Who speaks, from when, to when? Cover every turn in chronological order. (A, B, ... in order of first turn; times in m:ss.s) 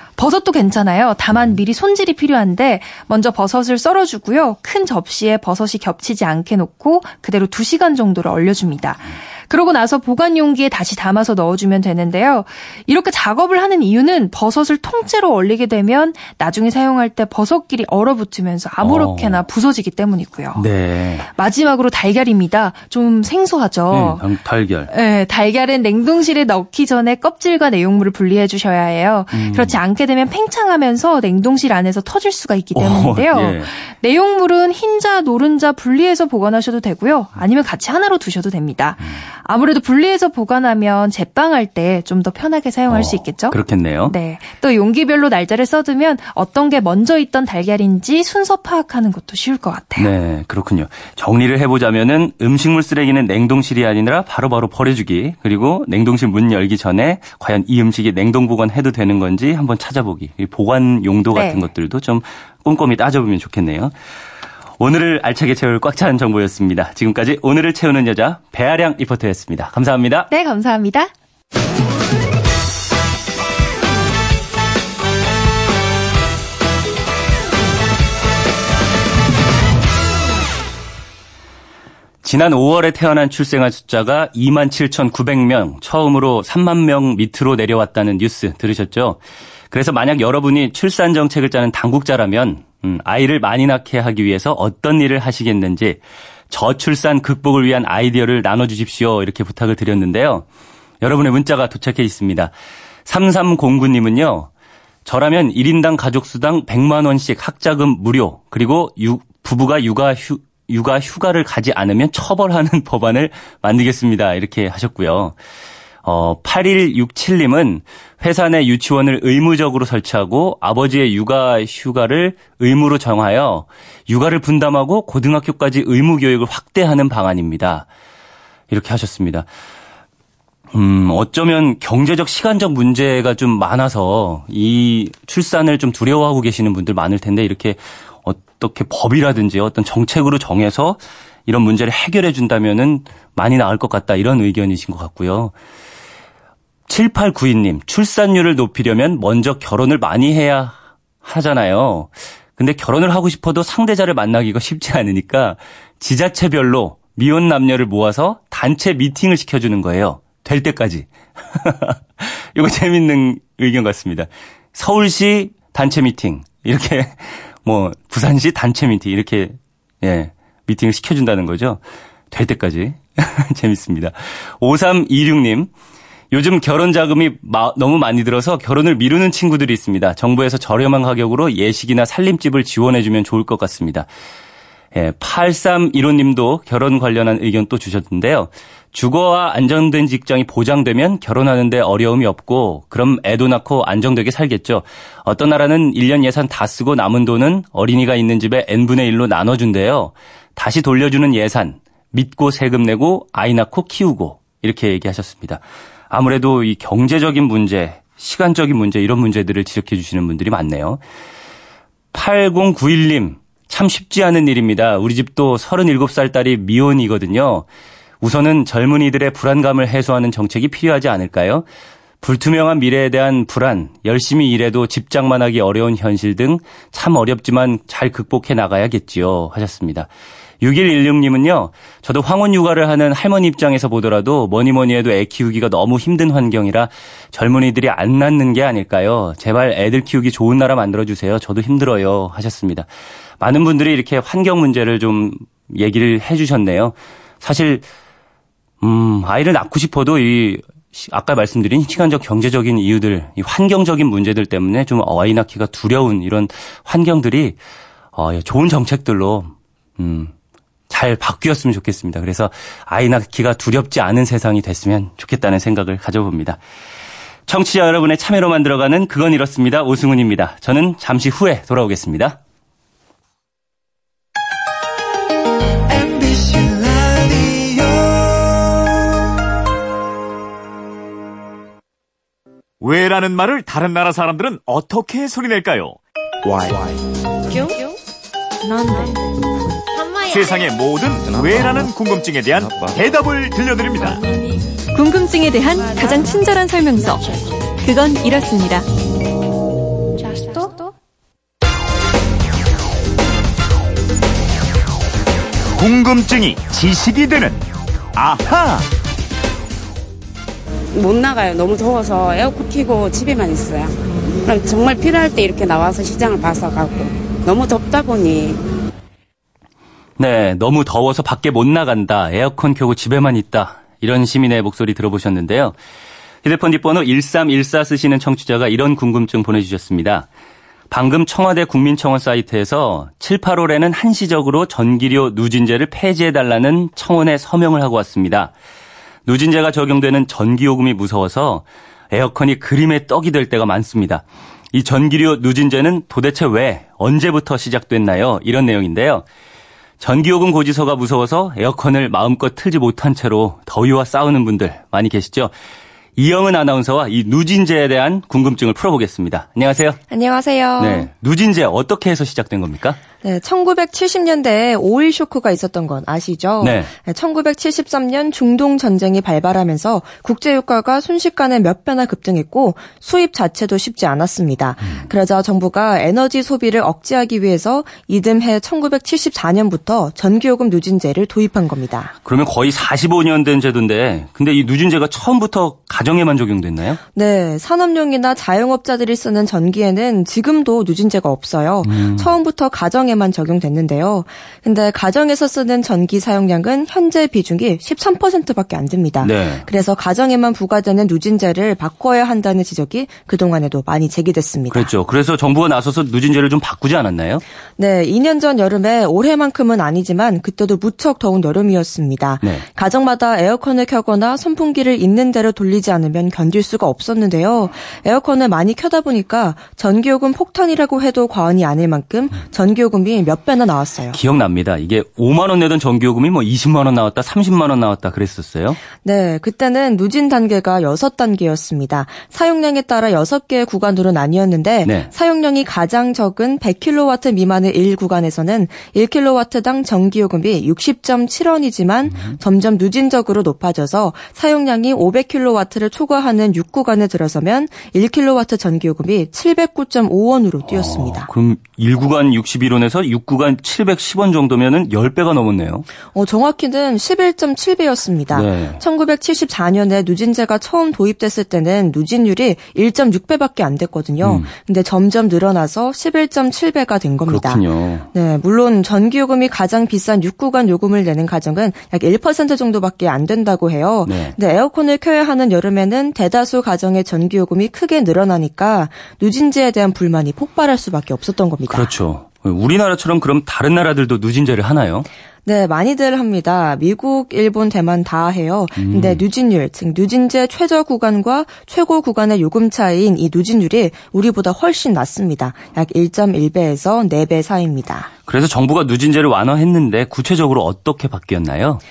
0:00.2-0:20.6 A
0:18.8-0:19.4 B
0:20.5-0:21.3 B
0:21.3-0:24.2 A
0:23.9-0:24.9 B
0:24.9-0:50.1 A
0:29.3-0:29.8 B
0:32.7-0:33.7 B
0:42.9-0:44.1 B
0:50.0-1:03.9 B
1:01.3-1:01.6 A
1:04.8-1:10.3 B
1:10.3-1:11.1 A
1:22.2-1:40.4 B
1:41.0-1:42.5 B
1:43.0-1:44.5 B
1:45.0-1:55.4 B
1:56.0-2:07.9 B
2:08.7-2:09.5 B
2:10.7-2:25.5 B
2:26.9-2:55.7 B
2:56.3-3:04.1 B
3:04.9-3:31.0 B
3:32.1-3:37.6 B
3:38.2-3:41.6 B
3:42.2-3:50.1 B
3:50.6-4:02.9 B
4:03.4-4:07.8 B
4:08.8-4:17.6 B
4:18.1-4:20.3 B
4:20.9-4:26.6 B
4:27.5-4:32.4 B
4:42.8-4:46.0 C
4:48.6-4:49.2 D
4:50.3-4:54.2 C
4:54.9-4:58.8 D
5:00.5-5:00.9 D
5:05.7-5:08.9 C
5:10.9-5:18.6 E
5:20.2-5:25.8 B
5:26.4-5:30.3 B
5:30.9-5:38.5 B
5:39.2-5:49.2 B
5:50.0-5:55.5 B
5:56.2-6:00.0 B
6:00.1-6:01.1 F
6:00.8-6:03.0 B
6:03.2-6:22.1 F
6:06.6-6:06.9 B
6:22.2-6:27.0 B
6:27.1-6:44.9 F
6:31.8-6:32.3 B
6:39.2-6:39.6 B
6:44.7-6:47.4 B
6:47.8-7:04.2 F
7:04.1-7:08.8 B
7:09.0-7:31.3 F
7:14.8-7:15.1 B
7:30.7-7:35.9 B
7:36.0-8:01.9 F
7:38.3-7:38.8 B
7:44.2-7:44.5 B
7:47.3-7:48.1 B
7:54.0-7:54.3 B
8:01.7-8:05.1 B
8:05.4-8:18.1 F
8:08.8-8:09.2 B
8:18.2-8:21.8 B